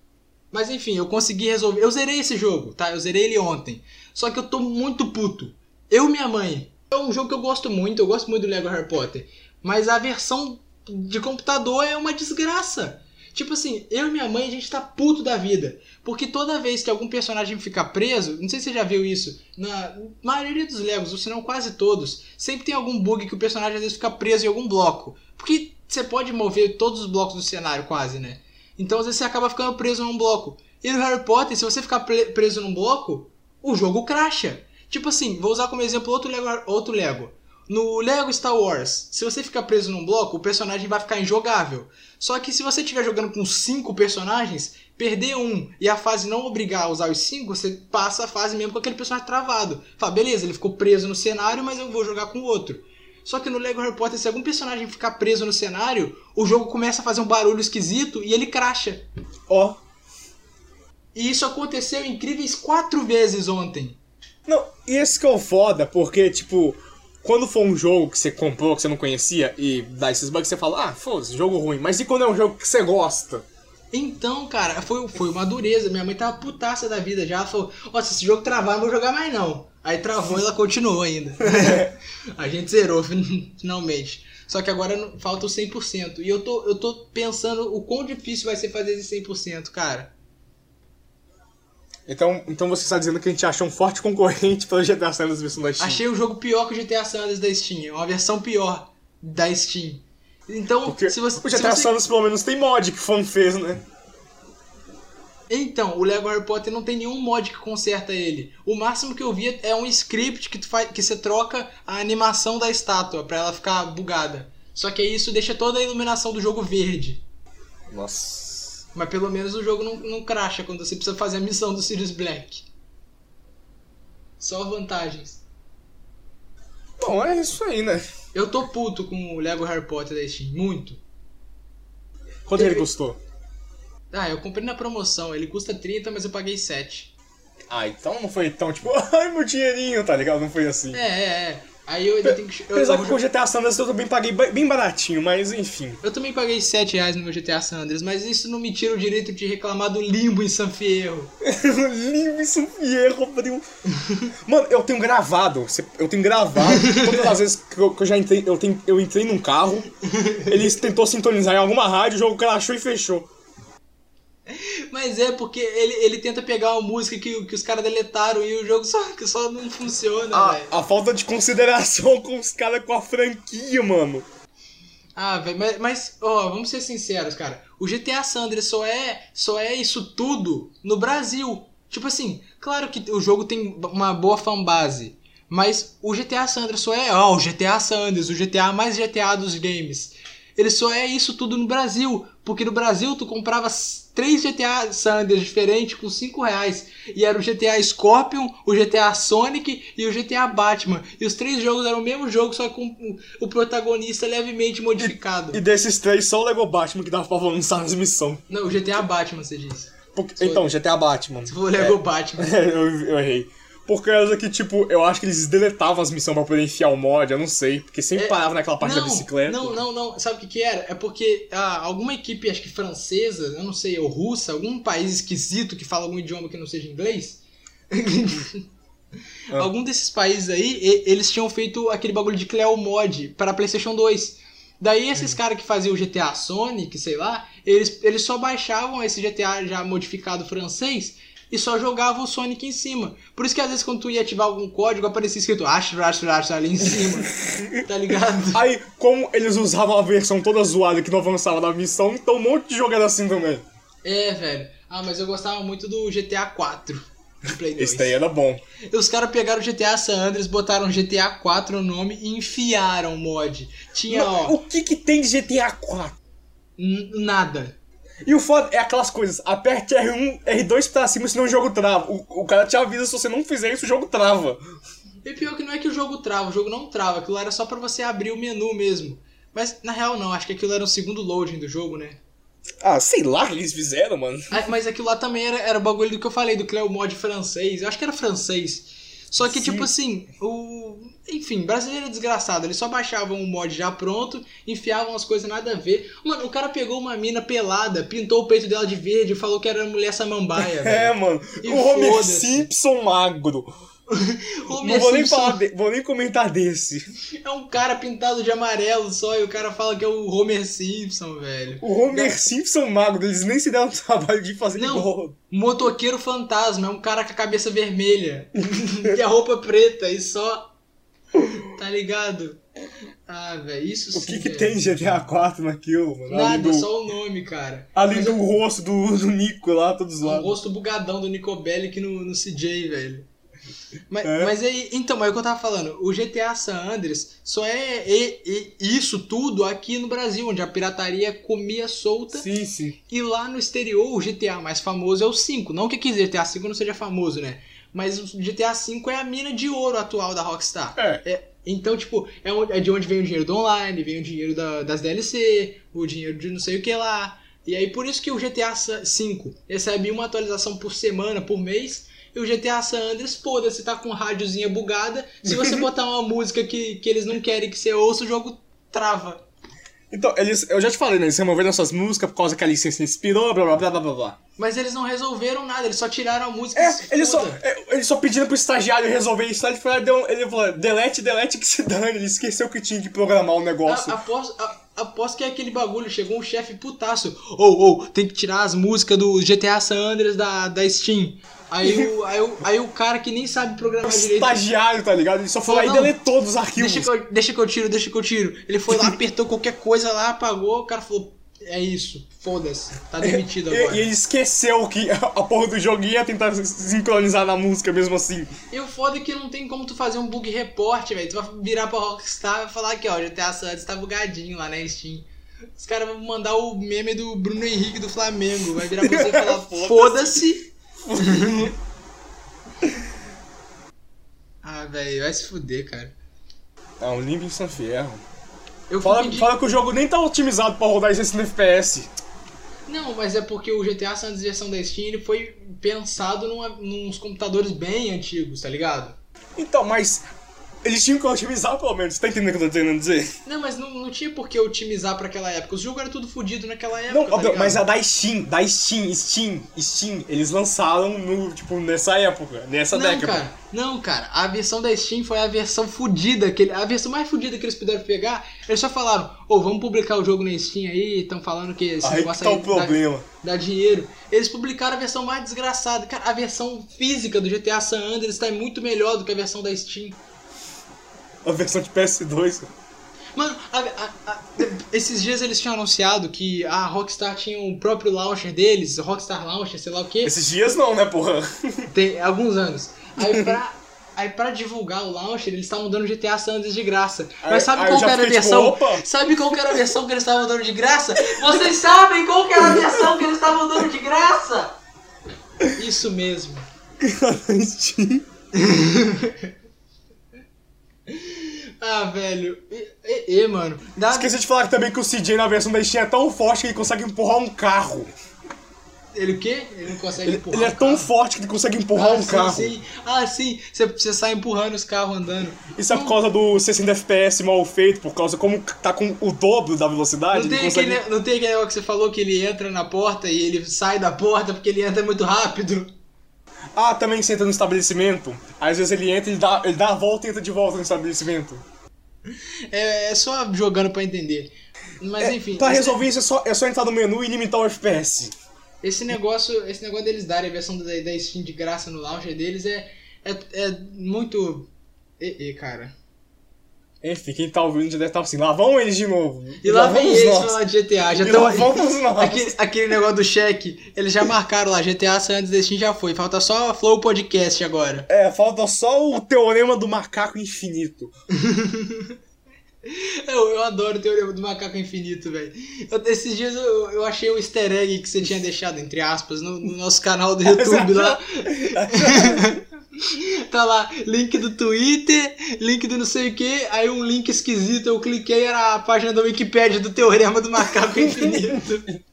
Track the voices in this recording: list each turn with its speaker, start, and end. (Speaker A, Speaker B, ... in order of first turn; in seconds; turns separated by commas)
Speaker A: 0.5-59.0, Speaker B: 59.5-59.8, Speaker A: 61.1-64.0, Speaker B: 64.5-73.4, Speaker A: 73.9-90.1, Speaker B: 81.6-81.8, Speaker B: 92.0-96.0, Speaker A: 95.8-101.9, Speaker B: 100.8-103.8, Speaker A: 105.5-117.2, Speaker B: 117.9-118.8, Speaker A: 118.9-122.7, Speaker A: 124.4-125.4, Speaker B: 127.0-128.0, Speaker A: 128.3-131.0, Speaker B: 132.4-133.2, Speaker A: 132.6-132.9, Speaker A: 134.1-137.1, Speaker B: 137.7-141.0, Speaker A: 140.9-143.2, Speaker B: 142.2-146.0, Speaker A: 146.0-151.3, Speaker B: 151.4-153.6, Speaker A: 154.0-154.2, Speaker B: 154.4-159.9, Speaker A: 156.6-157.3, Speaker A: 160.0-160.6, Speaker B: 160.4-163.3, Speaker A: 164.5-170.7, Speaker B: 170.3-174.2, Speaker A: 175.2-205.6, Speaker B: 205.0-208.4, Speaker A: 208.5-210.7, Speaker B: 210.1-219.8, Speaker A: 211.5-212.5, Speaker A: 218.2-227.4, Speaker A: 227.9-228.6, Speaker A: 229.5-248.6, Speaker B: 248.5-253.6, Speaker A: 254.0-258.1, Speaker B: 257.8-258.6, Speaker A: 258.9-264.6, Speaker B: 264.1-266.2, Speaker A: 266.8-267.8, Speaker B: 268.2-274.6, Speaker A: 275.2-282.2, Speaker B: 282.8-284.6, Speaker A: 284.5-302.7, Speaker B: 289.4-289.9, Speaker B: 300.6-303.7, Speaker A: 304.1-305.6, Speaker B: 304.8-307.0, Speaker A: 307.4-312.4, Speaker B: 311.8-315.4, Speaker A: 314.7-320.7, Speaker A: 321.4-322.6, Speaker A: 323.3-325.1, Speaker B: 324.1-326.9, Speaker A: 326.3-328.4, Speaker B: 327.9-330.5, Speaker A: 330.2-333.3, Speaker A: 334.1-342.5, Speaker B: 334.2-334.5, Speaker B: 342.3-343.0, Speaker A: 343.1-369.4, Speaker B: 351.0-351.2, Speaker B: 365.5-365.8, Speaker B: 370.1-374.4, Speaker A: 374.6-377.6, Speaker B: 376.8-384.2, Speaker A: 383.8-394.6, Speaker B: 391.8-392.1, Speaker B: 394.0-397.1, Speaker A: 395.6-396.1, Speaker A: 396.8-404.1, Speaker B: 398.9-399.1, Speaker B: 403.2-408.5, Speaker A: 408.7-420.6, Speaker B: 418.8-420.5, Speaker B: 421.0-421.7, Speaker A: 421.1-421.7, Speaker A: 424.6-426.1, Speaker B: 427.0-428.2, Speaker A: 428.9-429.5, Speaker B: 429.0-432.1, Speaker A: 432.9-439.2, Speaker B: 439.6-440.2, Speaker B: 440.8-443.3, Speaker A: 443.4-447.8, Speaker B: 447.1-453.4, Speaker A: 452.9-470.2, Speaker B: 462.0-463.2, Speaker B: 471.4-472.7, Speaker A: 473.4-480.3, Speaker B: 480.2-481.9, Speaker A: 481.9-494.7, Speaker B: 483.2-483.5, Speaker B: 487.4-489.8, Speaker B: 491.3-491.6, Speaker B: 492.6-493.1, Speaker A: 495.7-496.7, Speaker B: 497.0-498.2, Speaker A: 498.5-499.5, Speaker A: 501.1-504.3, Speaker B: 504.1-508.1, Speaker A: 509.1-511.1, Speaker B: 510.2-512.7, Speaker A: 511.9-516.2, Speaker B: 515.7-521.0, Speaker A: 520.3-525.9, Speaker B: 526.7-531.6, Speaker A: 532.7-536.0, Speaker B: 535.2-538.3, Speaker A: 538.8-545.9, Speaker B: 547.0-550.6, Speaker A: 549.6-558.1, Speaker B: 551.1-552.5, Speaker B: 558.1-561.1, Speaker A: 561.3-562.1, Speaker A: 562.9-581.9, Speaker B: 570.4-572.6, Speaker B: 581.0-581.6